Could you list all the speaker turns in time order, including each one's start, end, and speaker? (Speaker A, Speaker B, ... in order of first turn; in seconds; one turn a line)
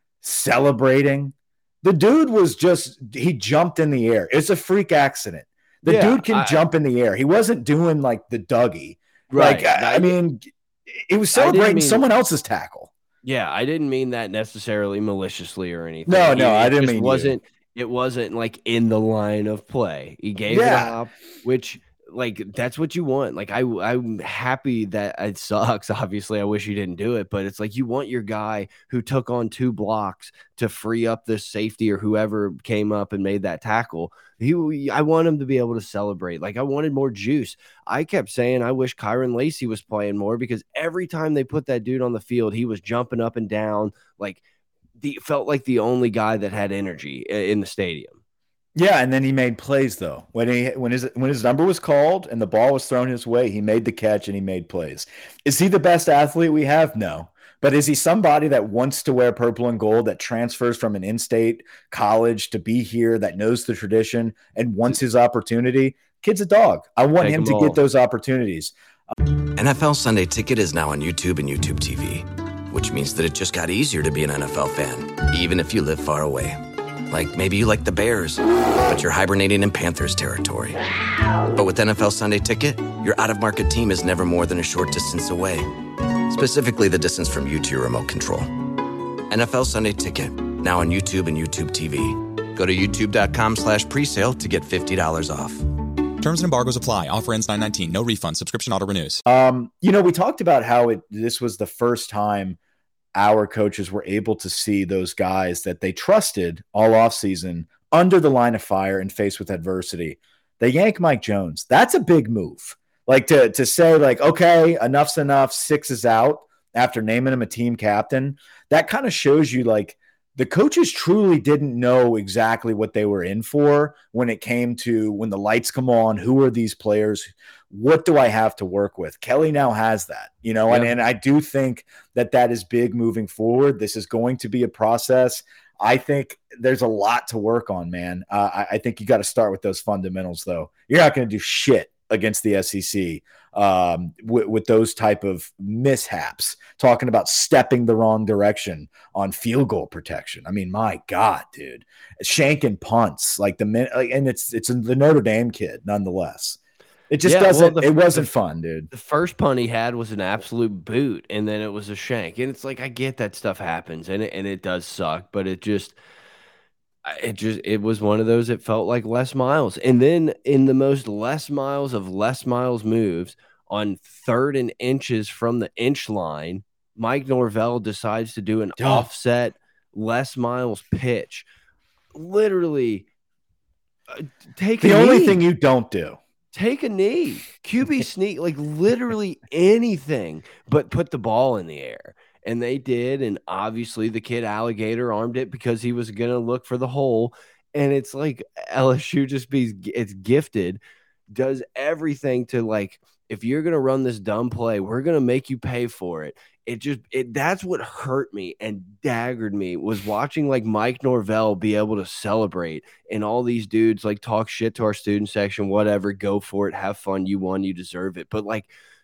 Speaker A: 0.2-12.9
Speaker B: 5.8-6.6
Speaker B: 9.3-10.1
Speaker B: 11.3-12.0
Speaker B: 13.2-44.4
Speaker A: 16.1-17.4
Speaker A: 20.5-21.0
Speaker B: 45.0-48.2
Speaker A: 48.8-68.7
Speaker B: 67.2-67.8
Speaker C: 69.5-76.6
Speaker C: 77.1-80.8
Speaker C: 81.5-85.7
Speaker C: 86.3-88.5
Speaker C: 89.3-95.6
Speaker D: 96.2-99.2
Speaker A: 99.2-102.6
Speaker A: 103.1-156.6
Speaker B: 130.7-130.9
Speaker A: 157.1-158.9
Speaker B: 157.2-158.3
Speaker B: 158.9-165.9
Speaker B: 167.0-181.4
Speaker A: 178.8-179.1
Speaker B: 182.1-183.1
Speaker B: 184.1-185.4
Speaker A: 184.8-186.2
Speaker B: 186.5-200.8
Speaker B: 201.3-218.7